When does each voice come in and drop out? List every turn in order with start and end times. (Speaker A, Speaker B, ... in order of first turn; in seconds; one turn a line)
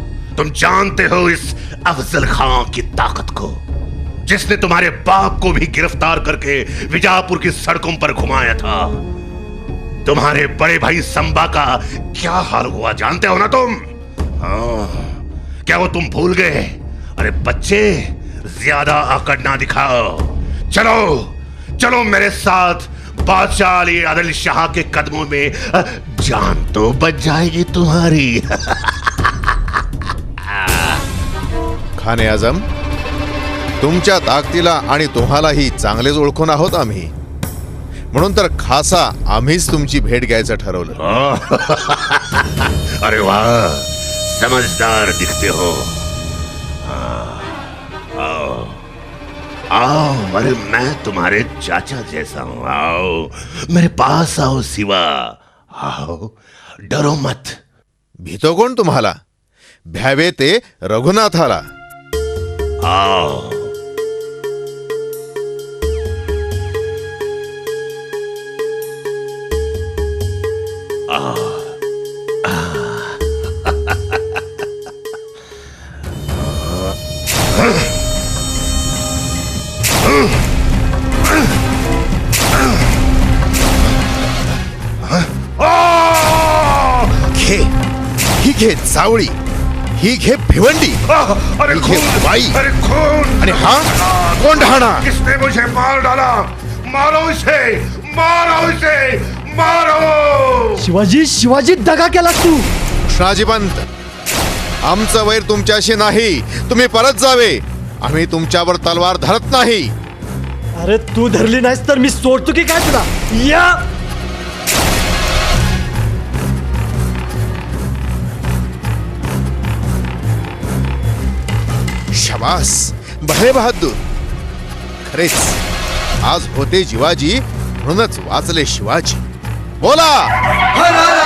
Speaker A: 0.3-3.6
Speaker A: 4.2-9.0
Speaker A: 10.0-13.8
Speaker A: 14.4-29.3
Speaker A: 30.5-31.0
Speaker B: 32.0-32.6
Speaker B: 33.8-37.1
Speaker B: 38.1-41.0
Speaker A: 41.0-46.0
Speaker A: 46.9-48.8
Speaker A: 49.7-56.3
Speaker A: 56.9-57.6
Speaker B: 58.2-59.1
Speaker B: 59.9-61.6
Speaker A: 62.8-63.7
Speaker A: 71.1-71.7
Speaker A: 72.5-73.1
Speaker A: 85.0-87.3
Speaker B: 87.4-87.7
Speaker B: 88.4-89.3
Speaker B: 90.0-91.0
Speaker A: 91.1-100.9
Speaker B: 91.7-92.6
Speaker B: 93.4-95.0
Speaker C: 100.8-102.7
Speaker B: 103.1-103.8
Speaker B: 104.8-109.9
Speaker C: 110.8-113.8
Speaker B: 122.1-124.0
Speaker B: 125.0-125.6
Speaker B: 126.2-129.2
Speaker B: 129.8-130.3